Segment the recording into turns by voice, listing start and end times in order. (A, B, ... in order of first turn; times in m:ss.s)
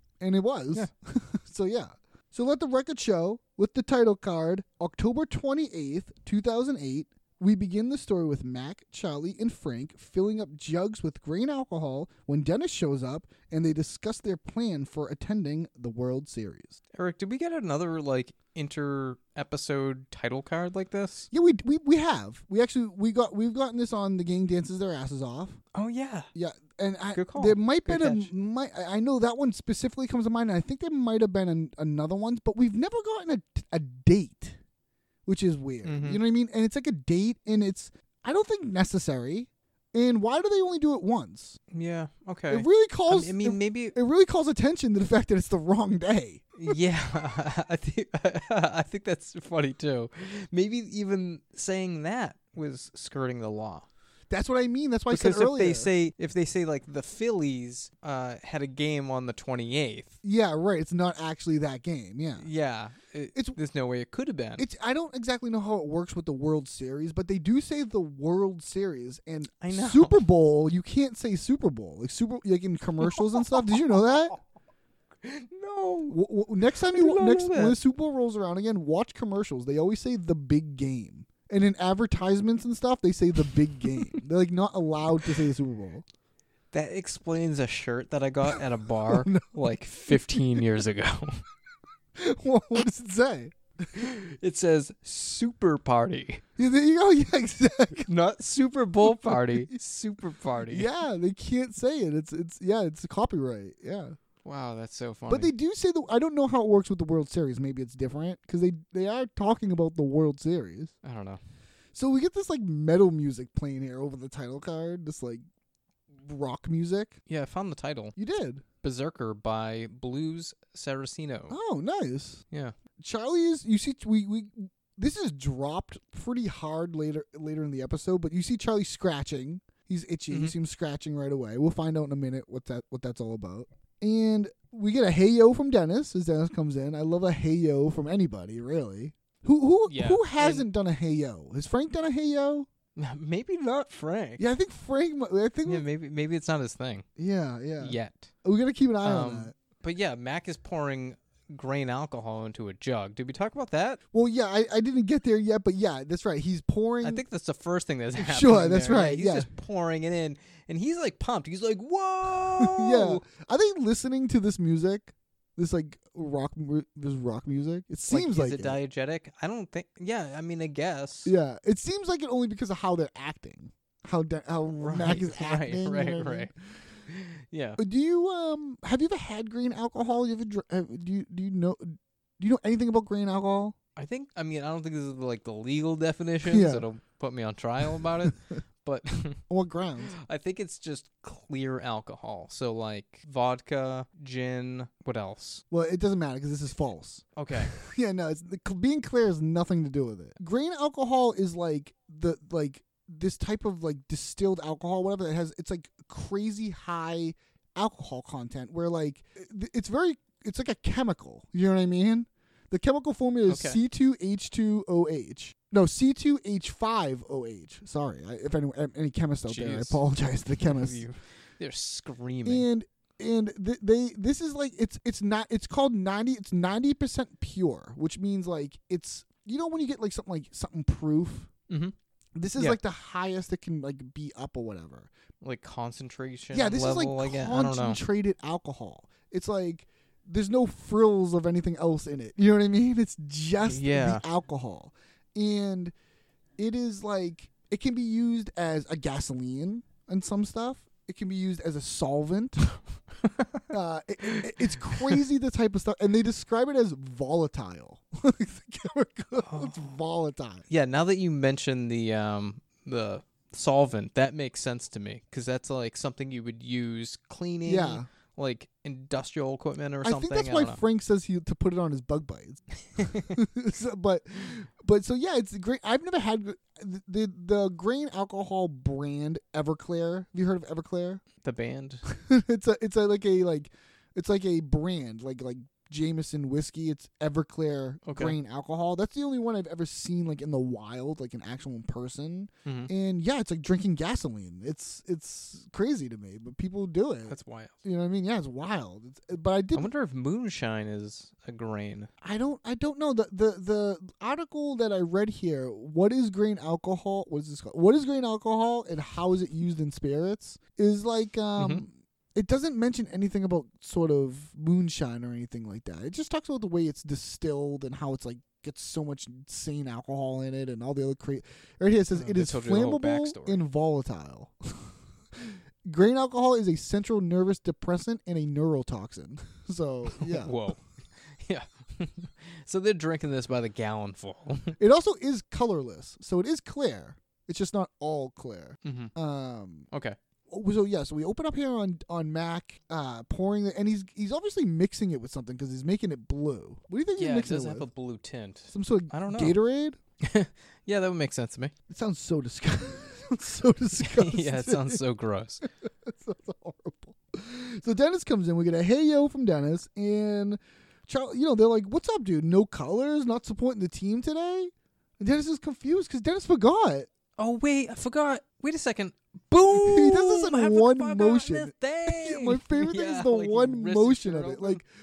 0:00.2-0:16.8 A
0:16.9-0:21.3 B
0:21.3-0:25.6 A
0:25.7-0:26.3 B
0:26.4-0:34.6 A
0:27.1-0:28.3 B
0:35.3-0:41.6 A
0:35.8-0:36.2 B
0:41.7-0:44.0 B
0:42.5-0:46.8 A
0:46.6-0:53.9 B
0:54.3-0:55.9 A
0:55.1-1:00.2 B
1:00.2-1:02.5 A
1:02.4-1:04.6 B
1:04.6-1:14.4 A
1:09.6-1:10.3 B
1:15.2-1:16.2 B
1:16.1-1:26.0 A
1:16.8-1:17.8 B
1:26.7-1:31.4 B
1:28.5-1:30.7 A
1:32.2-1:33.6 A
1:33.9-1:36.4 B
1:36.6-1:38.1 A
1:38.1-1:40.9 B
1:39.0-1:39.8 A
1:40.7-1:44.2 A
1:44.4-1:45.5 B
1:45.3-1:50.9 A
1:51.0-1:51.4 B
1:52.0-1:55.4 A
1:56.1-1:57.2 A
1:57.3-1:58.2 B
1:58.2-1:58.6 A
1:58.8-2:01.6 B
2:01.5-2:02.4 A
2:03.0-2:22.7 A
2:10.3-2:10.6 B
2:19.9-2:20.7 B
2:23.0-2:24.5 B
2:24.4-2:25.9 A
2:25.6-2:27.1 B
2:27.2-2:29.5 A
2:27.8-2:28.3 B
2:29.0-2:34.0 B
2:34.1-2:37.2 A
2:37.0-2:43.2 B
2:38.2-2:39.5 A
2:42.6-2:48.8 A
2:48.1-2:51.3 B
2:51.2-2:56.6 A
2:54.8-2:56.5 B
2:57.1-2:57.8 B
2:57.8-3:03.8 A
3:04.0-3:09.4 B
3:06.4-3:06.9 A
3:08.0-3:08.5 A
3:09.5-3:10.1 A
3:10.2-3:15.6 B
3:15.7-3:41.0 A
3:17.4-3:17.7 B
3:33.5-3:33.8 B
3:39.5-3:40.0 B
3:40.6-3:42.7 B
3:42.4-3:51.5 A
3:51.7-3:52.0 B
3:52.4-3:55.1 A
3:55.4-3:58.0 B
3:56.5-4:05.9 A
4:03.6-4:04.2 B
4:06.6-4:12.7 A
4:13.2-4:13.7 B
4:13.7-4:20.7 A
4:14.2-4:15.2 B
4:19.4-4:20.0 B
4:20.7-4:30.8 B
4:27.7-4:28.1 A
4:30.0-4:32.6 A
4:33.0-4:33.3 B
4:33.2-4:41.2 A
4:41.4-4:42.0 B
4:42.1-4:59.9 A
4:48.0-4:48.4 B
4:52.7-4:52.9 B
4:57.3-4:57.8 B
4:59.7-5:02.1 B
5:02.2-5:30.6 A
5:11.6-5:11.8 B
5:22.1-5:23.6 B
5:30.1-5:34.8 B
5:34.8-5:39.9 A
5:38.8-5:39.1 B
5:39.9-5:40.2 B
5:40.5-5:47.9 A
5:47.2-5:49.6 B
5:48.7-5:50.0 A
5:50.2-5:51.7 B
5:51.9-5:55.0 A
5:54.0-5:55.6 B
5:55.8-6:07.1 A
6:07.4-6:14.8 B
6:09.7-6:14.9 A